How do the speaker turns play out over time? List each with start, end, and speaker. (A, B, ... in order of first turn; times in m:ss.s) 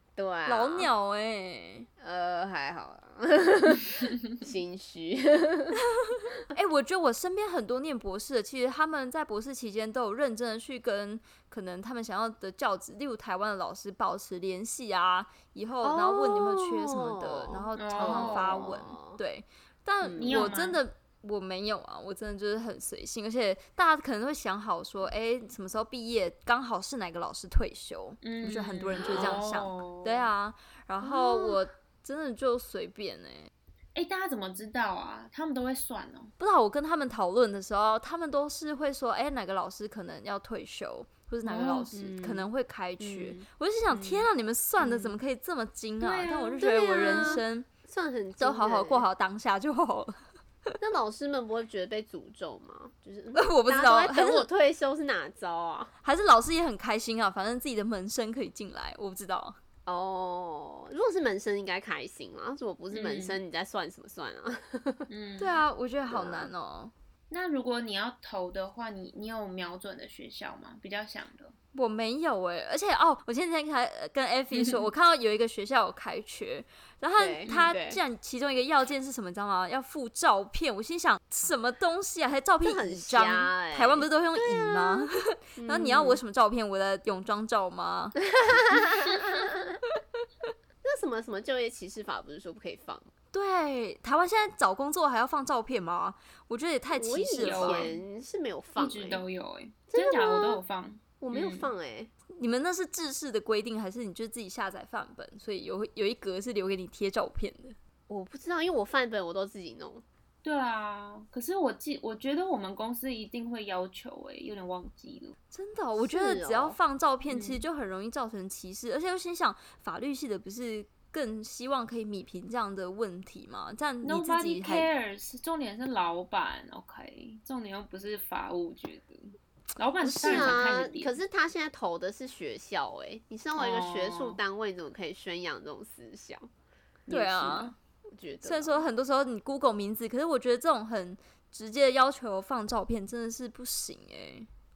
0:00.1-0:00.9 A
0:00.4-0:01.9 B
0:02.0-0:05.8 A
0:06.1-0:33.5 B
0:15.8-0:19.2 A
0:17.8-0:18.7 C
0:20.0-0:20.5 A
0:20.2-0:20.8 C
0:28.2-0:30.3 C
0:29.1-0:29.4 A
0:31.0-0:31.6 A
0:33.9-0:36.3 C
0:36.4-0:47.7 B
0:41.4-0:41.9 C
0:41.9-0:42.5 A
0:43.0-0:44.3 A
0:44.8-0:45.1 A
0:46.0-0:47.4 C
0:46.6-0:49.0 A
0:48.4-0:50.8 B
0:50.8-0:55.9 A
0:53.3-0:54.5 B
0:56.0-0:59.6 B
0:59.8-1:05.1 A
1:02.9-1:03.4 C
1:05.1-1:05.6 C
1:05.4-1:06.9 B
1:06.1-1:06.5 A
1:07.3-1:11.5 C
1:11.7-1:28.2 B
1:14.6-1:14.9 C
1:17.2-1:18.0 A
1:22.6-1:26.2 A
1:28.3-1:29.8 A
1:30.8-1:33.1 A
1:33.3-1:37.9 B
1:37.0-1:39.2 A
1:37.4-1:38.0 C
1:38.8-1:41.7 C
1:39.9-1:40.6 A
1:41.2-1:42.1 A
1:42.3-1:47.8 B
1:48.1-1:50.0 A
1:50.4-1:55.4 C
1:55.5-2:04.9 B
1:56.0-1:56.8 A
1:57.3-1:57.6 C
2:04.0-2:11.2 C
2:10.0-2:10.6 B
2:10.0-2:16.5 A
2:13.6-2:14.4 C
2:17.1-2:17.8 C
2:17.1-2:17.7 B
2:18.1-2:18.8 A
2:18.4-2:24.5 B